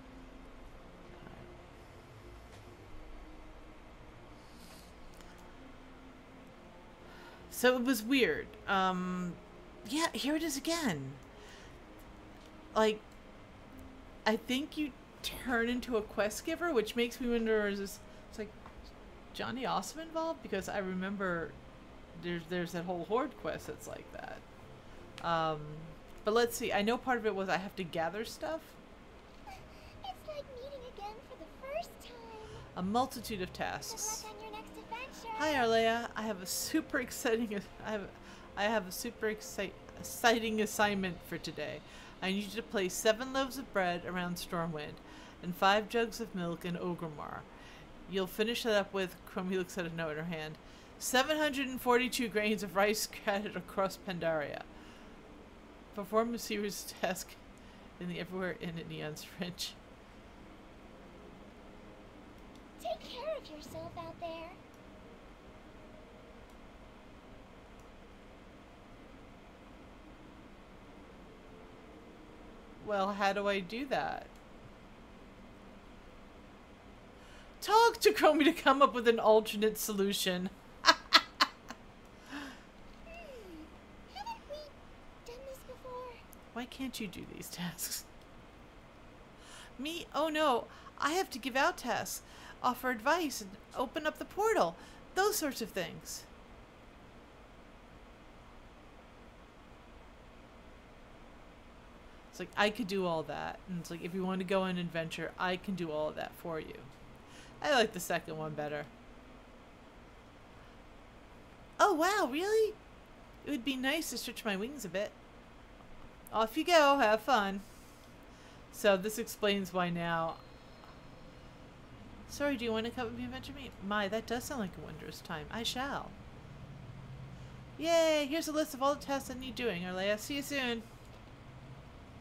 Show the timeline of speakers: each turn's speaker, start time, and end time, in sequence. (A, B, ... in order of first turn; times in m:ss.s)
0:01.1-0:01.5 A
0:07.5-0:11.2 A
0:12.7-0:13.0 A
0:14.2-0:18.6 A
0:19.3-0:21.6 A
0:22.2-0:24.4 A
0:25.2-0:28.8 A
0:29.5-0:32.6 B
0:32.8-0:34.3 A
0:33.9-0:35.6 B
0:35.4-0:47.5 A
0:48.1-0:54.7 A
0:55.9-0:57.4 A
0:58.0-0:59.8 A
1:02.8-1:04.6 B
1:12.8-1:14.3 A
1:17.6-1:21.4 A
1:23.1-1:24.7 B
1:25.2-1:26.2 B
1:26.5-1:28.1 A
1:29.8-1:36.3 A
1:42.3-1:46.9 A
1:47.6-1:48.9 A
1:51.8-1:52.8 A
1:53.4-1:55.2 A
1:56.3-1:57.6 A
1:58.7-2:00.4 A
2:02.3-2:06.2 A
2:07.8-2:10.8 A